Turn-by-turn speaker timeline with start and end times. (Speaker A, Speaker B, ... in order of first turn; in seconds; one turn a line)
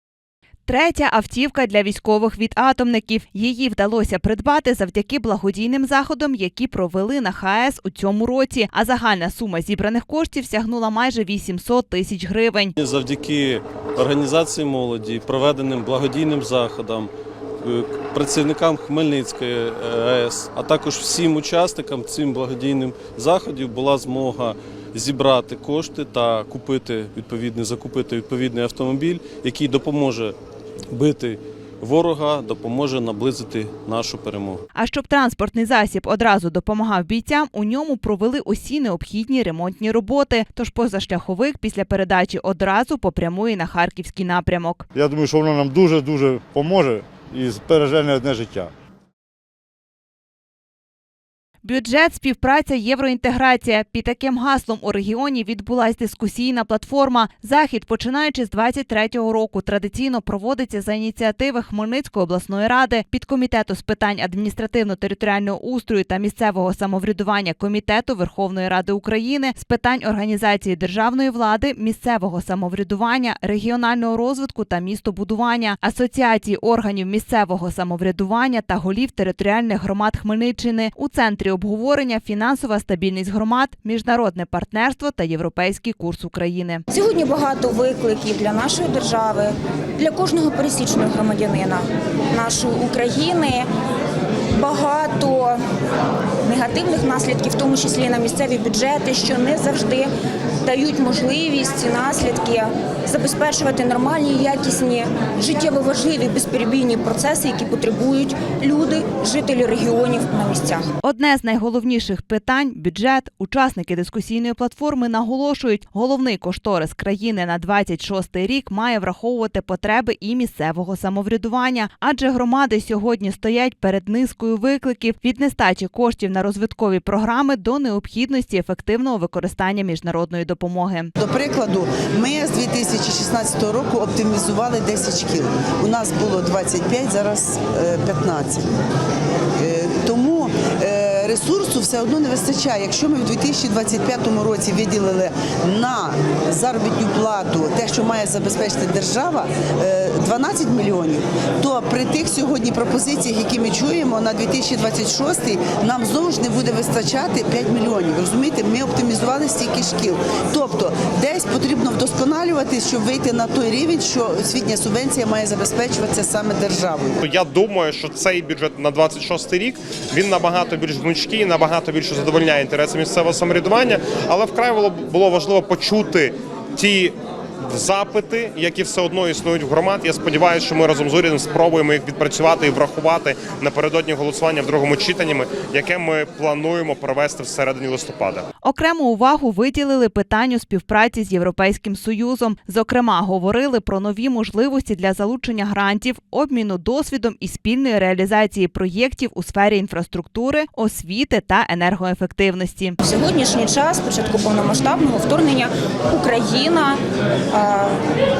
Speaker A: 0.7-12.7
Speaker B: 12.8-17.1
Speaker B: 17.6-30.3
Speaker B: 30.9-34.6
Speaker A: 34.7-44.9
Speaker C: 44.9-48.7
Speaker A: 51.6-86.8
Speaker D: 86.9-93.7
Speaker D: 94.5-95.6
Speaker D: 96.4-100.1
Speaker D: 100.6-110.9
Speaker A: 111.0-131.1
Speaker E: 131.2-138.7
Speaker E: 139.6-167.2
Speaker F: 167.2-177.2
Speaker F: 177.7-188.4
Speaker A: 188.6-203.0
Speaker D: 203.0-207.0
Speaker D: 207.5-207.9